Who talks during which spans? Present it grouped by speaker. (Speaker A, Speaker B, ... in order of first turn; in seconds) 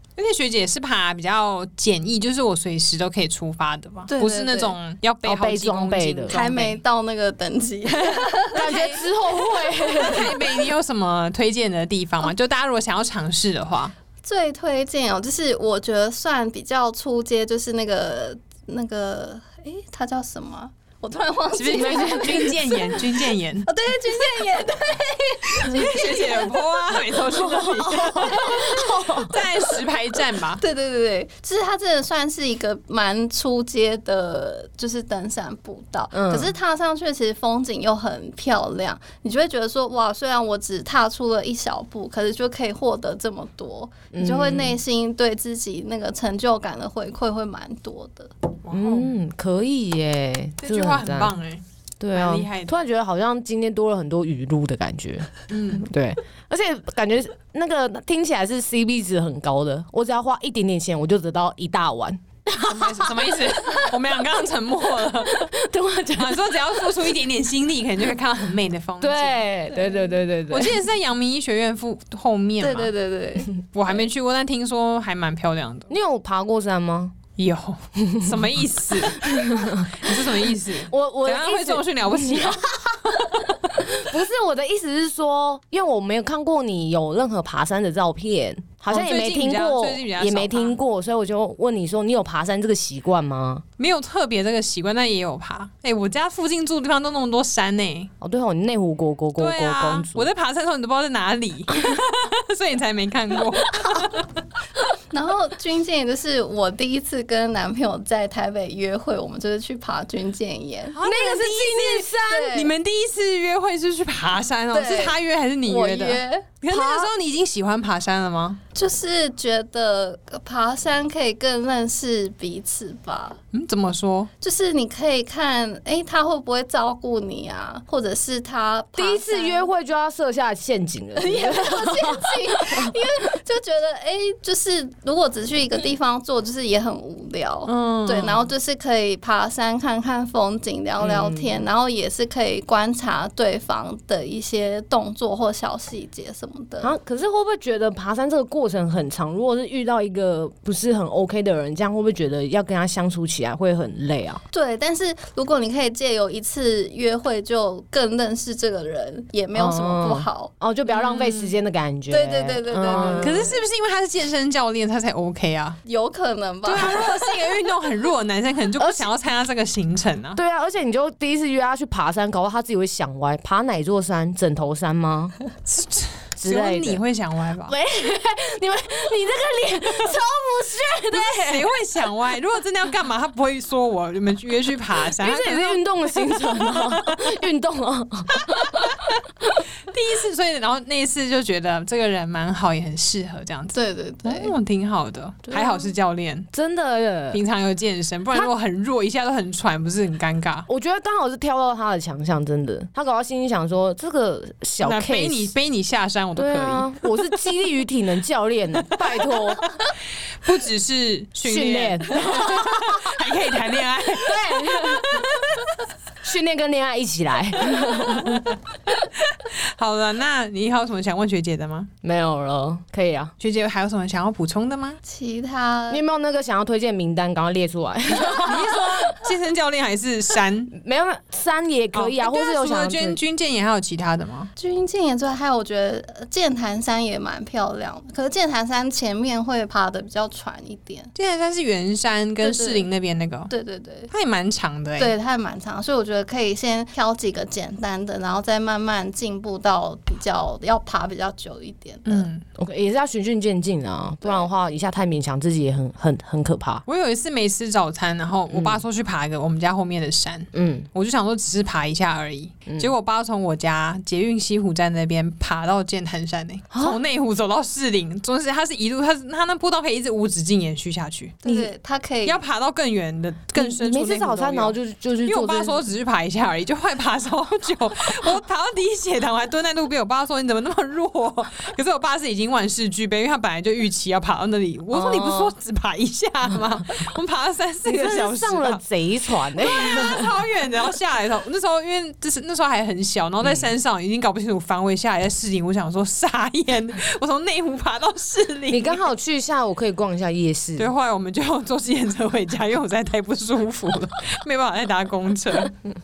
Speaker A: 0.2-6.7, 8.6-9.0, 9.9-13.9, 21.6-23.7, 25.7-30.6, 48.6-49.1, 50.6-52.8, 55.5-55.9, 62.6-65.5, 66.2-69.4, 70.5-72.9, 73.7-75.9, 77.4-83.5, 88.9-90.8, 93.8-98.1, 99.4-104.3, 110.9-118.6, 123.5-124.3, 137.7-138.3, 160.9-161.5, 162.9-165.8, 166.6-170.4, 175.7-177.7, 181.1-187.3, 188.3-189.2, 189.9-196.5, 197.3-200.7, 204.8-207.1, 210.4-215.7, 217.9-218.4, 219.3-221.9, 223.4-225.0, 228.2-230.7, 231.9-234.5, 241.2-243.5, 244.1-245.1, 252.1-252.4, 256.9-271.4, 272.2-288.8, 289.5-299.1, 300.8-305.7
Speaker B: 4.1-4.7, 6.3-10.3, 14.2-23.0, 23.6-29.7, 30.6-48.3, 72.6-73.5, 105.1-111.0, 112.2-112.7, 114.7-117.1, 118.7-123.4, 124.4-129.7, 131.2-146.9, 154.5-160.5, 162.1-163.6, 165.8-167.4, 193.7-194.6, 225.0-226.0, 234.6-241.1, 242.4-242.9, 243.5-244.1, 245.0-252.3, 271.4-272.4
Speaker C: 5.2-6.7, 8.5-10.4, 21.7-22.5, 27.6-29.3, 36.1-36.5, 44.1-44.8, 48.7-51.3, 52.0-63.1, 65.2-66.9, 69.0-70.8, 75.9-77.1, 78.0-78.3, 79.0-93.6, 98.2-100.3, 111.0-112.5, 129.0-133.0, 141.0-141.6, 146.8-154.4, 159.5-163.5, 168.8-169.1, 170.3-175.3, 176.4-177.0, 177.7-181.7, 185.2-189.0, 195.5-195.8, 196.5-197.4, 200.7-205.5, 206.3-209.6, 211.4-213.2, 214.2-215.3, 216.2-218.5, 222.0-223.3, 225.9-229.2, 230.7-233.2, 252.6-256.8, 258.5-258.8, 260.5-260.9, 266.7-267.0, 271.4-271.7, 273.6-275.8, 284.9-285.5, 287.8-290.3, 293.4-293.7, 298.7-300.9